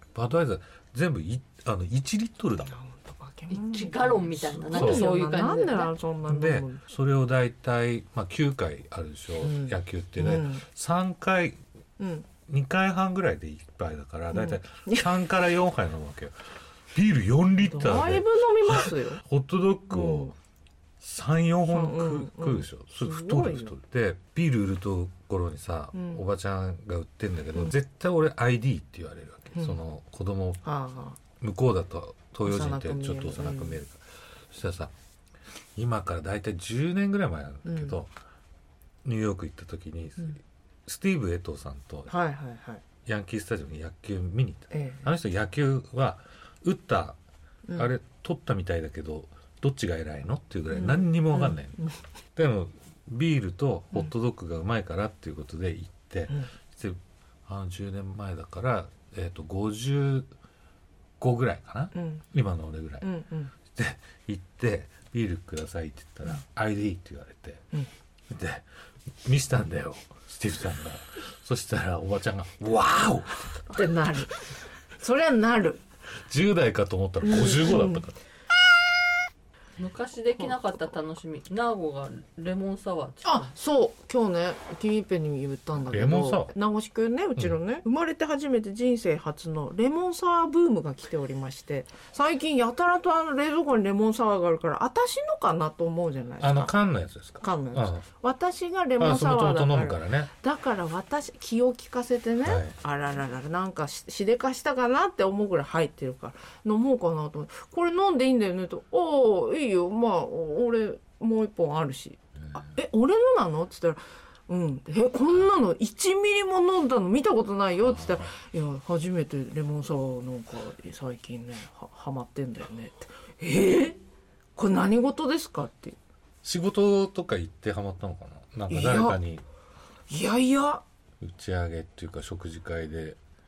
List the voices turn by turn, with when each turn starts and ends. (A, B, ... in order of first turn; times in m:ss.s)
0:00.1-0:02.8 A
0:02.7-0:06.8 B
0:03.5-0:05.9 C
0:04.7-0:05.0 A
0:06.2-0:11.6 A
0:09.4-0:10.6 B
0:12.0-0:12.3 B
0:12.4-0:16.3 A
0:14.3-0:15.1 B
0:16.9-0:20.3 A
0:17.6-0:19.2 B
0:19.9-0:20.3 B
0:21.0-0:30.6 A
0:21.7-0:23.7 B
0:25.9-0:26.2 B
0:30.6-0:31.2 B
0:31.4-0:34.9 A
0:32.4-0:33.8 B
0:35.8-0:38.1 A
0:37.6-0:37.9 B
0:39.0-0:42.1 A
0:42.1-0:42.8 B
0:43.0-0:47.2 A
0:44.7-0:45.1 B
0:47.7-0:51.8 A
0:50.7-0:51.9 B
0:52.3-1:00.3 A
1:01.2-1:03.1 A
1:01.9-1:02.2 B
1:03.0-1:03.5 B
1:03.6-1:07.6 A
1:08.3-1:08.6 A
1:09.2-1:13.9 A
1:13.7-1:14.4 B
1:15.0-1:15.8 B
1:16.2-1:18.2 A
1:17.2-1:18.0 B
1:19.8-1:23.5 C
1:23.2-1:36.7 B
1:25.9-1:26.5 A
1:36.4-1:38.0 A
1:37.4-2:04.0 B
1:39.0-1:40.3 A
1:42.4-1:42.8 A
1:57.8-1:58.3 A
2:04.6-2:06.0 B
2:06.4-2:09.4 A
2:08.7-2:09.2 B
2:10.1-2:10.8 B
2:11.2-2:13.2 A